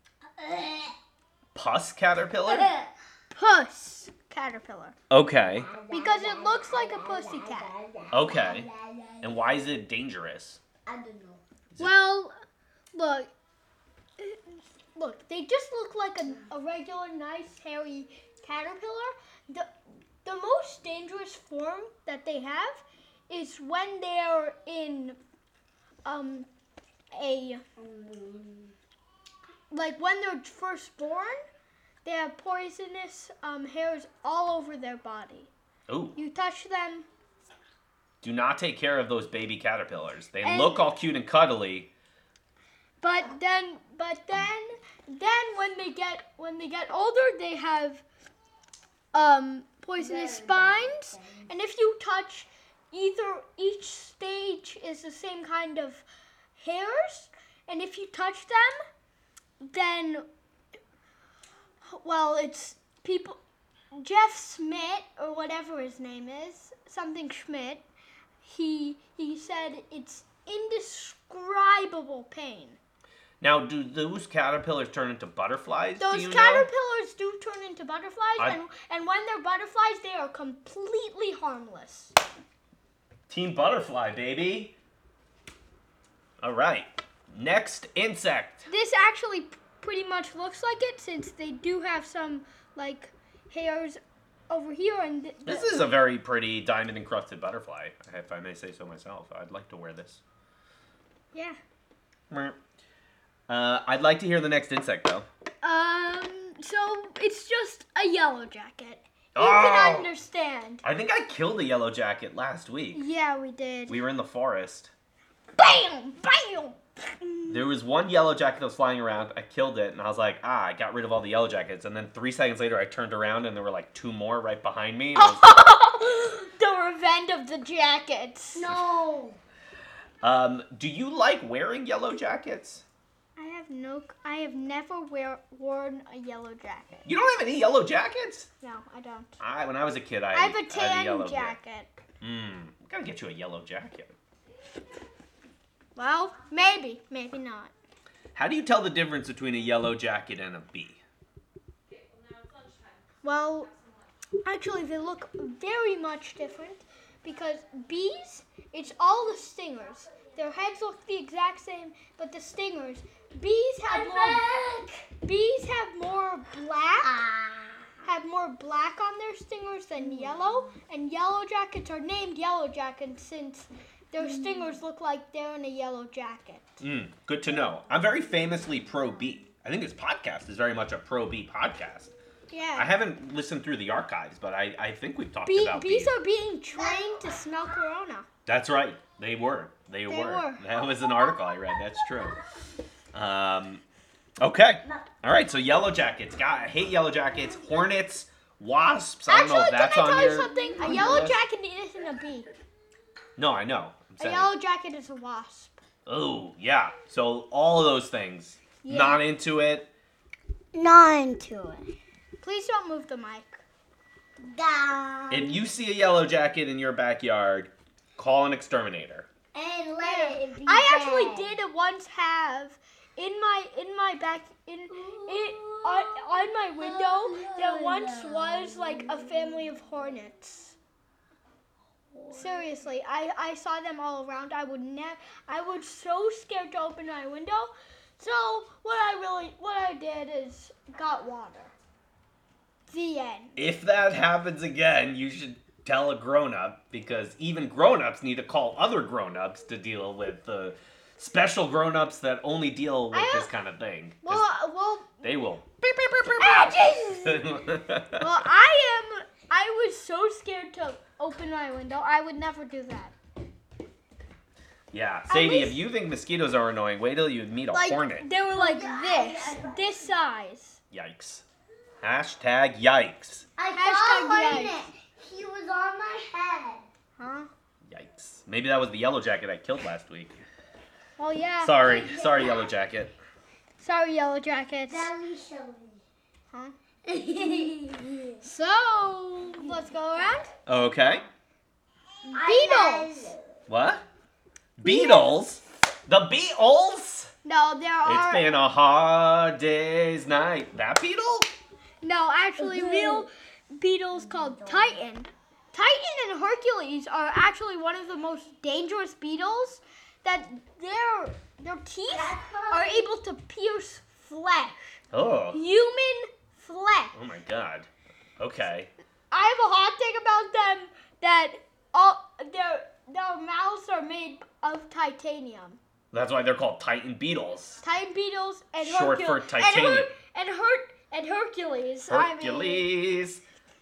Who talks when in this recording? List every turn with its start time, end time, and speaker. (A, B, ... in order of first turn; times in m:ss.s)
0:00.3-0:01.0 A
0:01.5-0:02.7 B
0:02.5-0:02.9 A
0:03.3-0:05.0 C
0:05.1-0:05.7 B
0:05.4-0:09.4 A
0:05.9-0:07.7 C
0:08.1-0:08.7 B
0:09.2-0:10.6 B
0:10.8-0:11.4 A
0:11.8-0:12.3 C
0:12.9-0:13.3 C
0:14.2-0:19.7 C
0:20.2-0:25.2 C
0:26.0-0:26.5 C
0:27.1-0:27.6 C
0:27.8-0:28.7 A
0:29.7-0:31.4 C
0:32.0-0:35.5 C
0:35.9-0:36.2 B
0:36.2-0:37.1 C
0:38.2-0:41.9 B
0:40.4-0:40.9 C
0:43.0-0:48.0 C
0:49.1-0:56.0 C
0:50.0-0:51.5 A
0:56.6-0:58.8 C
0:59.6-1:00.2 C
1:01.8-1:03.4 C
1:03.9-1:07.8 C
1:08.4-1:12.8 C
1:13.4-1:16.7 B
1:16.0-1:22.1 C
1:23.3-1:24.8 B
1:26.4-1:28.7 B
1:28.7-1:35.8 C
1:35.4-1:40.2 B
1:42.3-1:42.6 B
1:43.5-1:45.2 B
1:45.6-1:50.8 C
1:49.3-1:50.1 B
1:50.8-1:53.0 B
1:52.9-1:54.0 C
1:53.9-1:54.9 B
1:55.6-1:57.7 C
1:57.5-2:05.5 B
2:05.2-2:08.7 C
2:08.5-2:09.4 A
2:10.2-2:12.8 B
2:13.4-2:17.0 C
2:17.0-2:18.5 B
2:18.6-2:19.3 C
2:19.4-2:21.6 B
2:20.3-2:22.0 C
2:22.2-2:24.1 B
2:26.0-2:27.7 C
2:28.3-2:31.0 B
2:33.2-2:33.7 C
2:34.4-2:44.4 C
2:43.8-2:45.1 A
2:45.2-2:47.2 C
2:47.0-2:47.9 A
2:48.0-2:56.7 C
2:50.0-2:50.7 A
2:54.2-2:54.8 A
2:56.8-3:02.1 B
3:02.5-3:02.9 C
3:02.8-3:06.1 B
3:05.4-3:08.3 C
3:06.8-3:07.2 A
3:08.4-3:12.4 B
3:10.1-3:10.6 C
3:13.1-3:13.8 B
3:14.4-3:21.4 B
3:19.3-3:22.5 C
3:20.6-3:21.0 A
3:23.4-3:24.5 B
3:24.2-3:25.8 C
3:26.0-3:29.9 B
3:28.8-3:29.2 C
3:30.7-3:31.9 A
3:32.4-3:33.6 C
3:34.4-3:35.6 A
3:35.3-3:39.3 B
3:39.5-3:41.5 A
3:40.0-3:50.8 C
3:44.9-3:46.2 A
3:46.8-3:49.9 A
3:52.1-3:52.7 A
3:52.3-4:01.7 C
4:02.9-4:03.6 C
4:03.6-4:14.5 B
4:13.1-4:13.5 C
4:14.2-4:15.2 C
4:15.2-4:18.3 B
4:16.4-4:17.5 C
4:18.2-4:23.1 C
4:24.9-4:28.3 B
4:25.3-4:25.8 C
4:27.7-4:30.8 C
4:28.5-4:30.1 A
4:30.9-4:31.4 B
4:32.0-4:33.4 B
4:33.6-4:36.8 A
4:33.7-4:34.8 C
4:37.2-4:37.5 C
4:37.9-4:40.4 B
4:41.2-4:41.9 C
4:41.6-4:43.1 B
4:41.8-4:42.7 A
4:43.8-4:45.1 C
4:44.9-4:46.0 A
4:47.0-4:48.4 A
4:48.4-4:50.5 C
4:50.6-4:51.2 B
4:52.3-4:53.5 A
4:52.3-4:53.3 C
4:53.7-4:54.0 B
4:54.8-4:57.3 B
4:54.8-4:55.4 C
4:57.4-4:58.5 C
4:58.0-5:01.5 B
5:02.0-5:15.0 C
5:02.6-5:03.3 A
5:04.2-5:05.0 A
5:12.1-5:13.1 A
5:15.1-5:15.6 B
5:15.5-5:17.2 C
5:17.1-5:17.9 B
5:18.4-5:18.9 B
5:19.3-5:25.8 C
5:26.1-5:27.8 B
5:27.8-5:32.9 C
5:28.8-5:30.1 B
5:32.1-5:33.4 B